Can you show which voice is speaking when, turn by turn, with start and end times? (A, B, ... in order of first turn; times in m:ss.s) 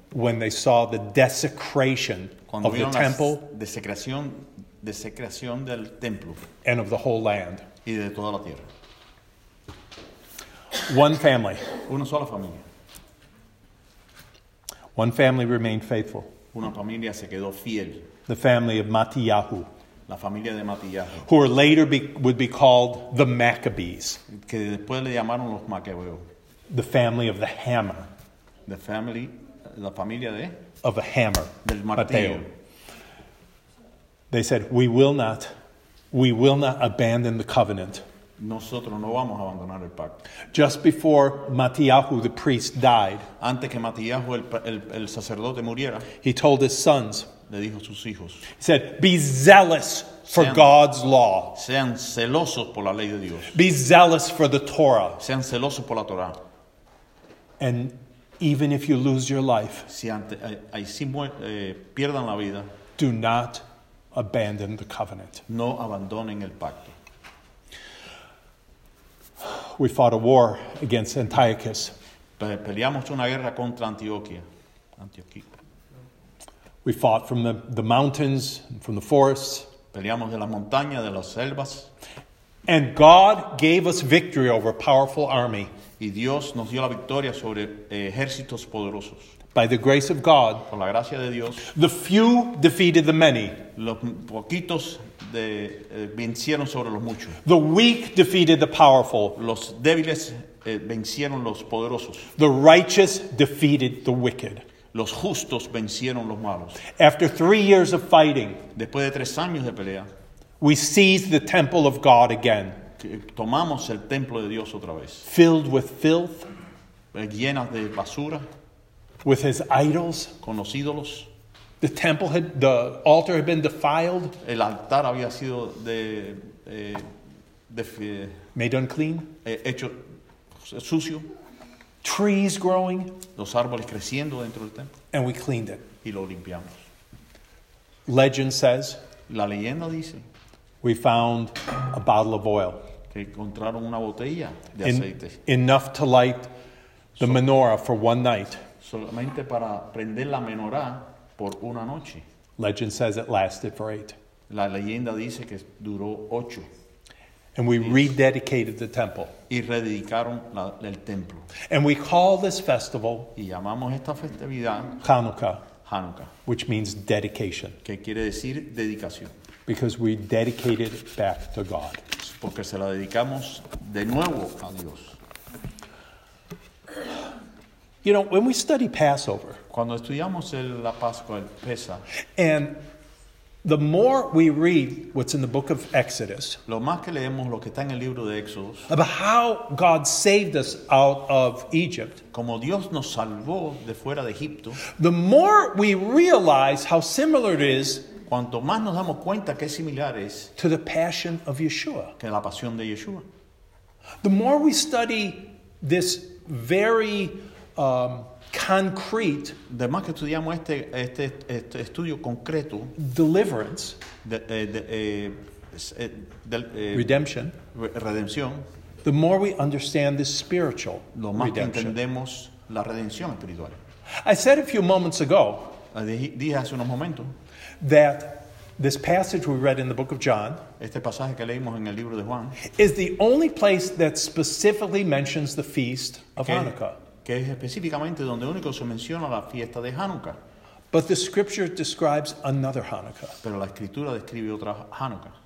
0:00.1-0:03.4 A
0:02.5-0:06.4 B
0:06.6-0:07.6 A
0:07.8-0:08.7 B
0:10.8-0:11.8 A
0:11.8-0:12.6 B
0:14.9-0:16.3 A
0:16.5-0:18.1 B
0:18.3-0:19.7 A
0:20.1-0:21.3 B
0:21.2-0:24.2 A
0:24.3-0:26.2 B
0:26.7-0:28.1 A
0:28.6-0:30.6 B
0:30.8-0:32.4 A
0:31.6-0:32.5 B
0:34.3-0:35.5 A
0:36.1-0:38.0 A
0:38.4-0:40.2 B
0:40.5-0:43.3 A
0:43.4-0:46.1 B
0:46.2-0:47.3 A
0:47.5-0:48.5 B
0:48.5-0:51.6 A
0:50.3-0:50.7 B
0:51.5-0:53.6 B
0:53.5-0:55.2 A
0:55.2-0:56.4 B
0:57.6-0:59.9 A
0:59.9-1:02.7 B
1:03.0-1:03.6 A
1:04.1-1:05.4 A
1:05.5-1:07.0 B
1:09.4-1:11.9 A
1:12.4-1:14.4 B
1:15.0-1:15.5 B
1:16.8-1:19.7 A
1:19.9-1:21.9 B
1:22.7-1:25.7 A
1:26.0-1:29.3 B
1:29.5-1:30.7 A
1:30.7-1:31.7 B
1:31.6-1:33.6 A
1:33.7-1:37.4 B
1:37.4-1:39.4 A
1:39.4-1:42.3 B
1:42.4-1:44.6 A
1:44.9-1:46.8 B
1:46.8-1:48.7 A
1:48.7-1:50.1 B
1:50.6-1:52.8 A
1:53.0-1:55.3 B
1:55.2-1:56.5 A
1:57.1-1:58.4 B
1:59.2-2:00.3 A
2:00.4-2:01.3 B
2:01.8-2:04.4 A
2:04.4-2:07.1 B
2:07.7-2:08.4 B
2:08.5-2:09.3 A
2:09.4-2:10.0 B
2:10.6-2:11.3 B
2:12.0-2:13.2 A
2:13.4-2:14.9 B
2:15.1-2:15.9 A
2:16.0-2:16.8 B
2:18.1-2:19.0 A
2:19.3-2:20.2 B
2:20.8-2:22.8 A
2:23.1-2:25.4 B
2:24.8-2:26.5 A
2:27.2-2:28.6 A
2:28.8-2:32.2 B
2:32.6-2:34.1 A
2:34.5-2:36.7 B
2:37.5-2:39.3 A
2:39.5-2:41.5 B
2:41.6-2:43.3 A
2:43.3-2:45.0 B
2:45.0-2:45.7 A
2:45.8-2:46.3 B
2:46.4-2:47.8 A
2:47.8-2:49.3 B
2:49.7-2:52.0 A
2:52.2-2:55.2 B
2:58.0-2:59.6 A
2:59.7-3:02.0 B
3:02.4-3:02.8 A
3:03.6-3:06.6 A
3:06.7-3:08.9 B
3:08.9-3:12.2 A
3:12.3-3:14.8 B
3:14.8-3:18.1 A
3:18.2-3:20.5 B
3:20.6-3:22.1 A
3:22.2-3:23.2 B
3:24.2-3:29.6 A
3:29.7-3:32.9 B
3:33.0-3:34.0 A
3:34.2-3:37.1 B
3:36.9-3:37.6 A
3:37.7-3:38.6 B
3:39.0-3:42.0 A
3:41.1-3:43.8 B
3:44.2-3:45.8 A
3:45.9-3:47.3 B
3:47.8-3:50.6 A
3:50.8-3:52.6 B
3:52.6-3:57.0 A
3:56.4-4:00.4 B
4:00.9-4:03.4 A
4:03.4-4:05.3 B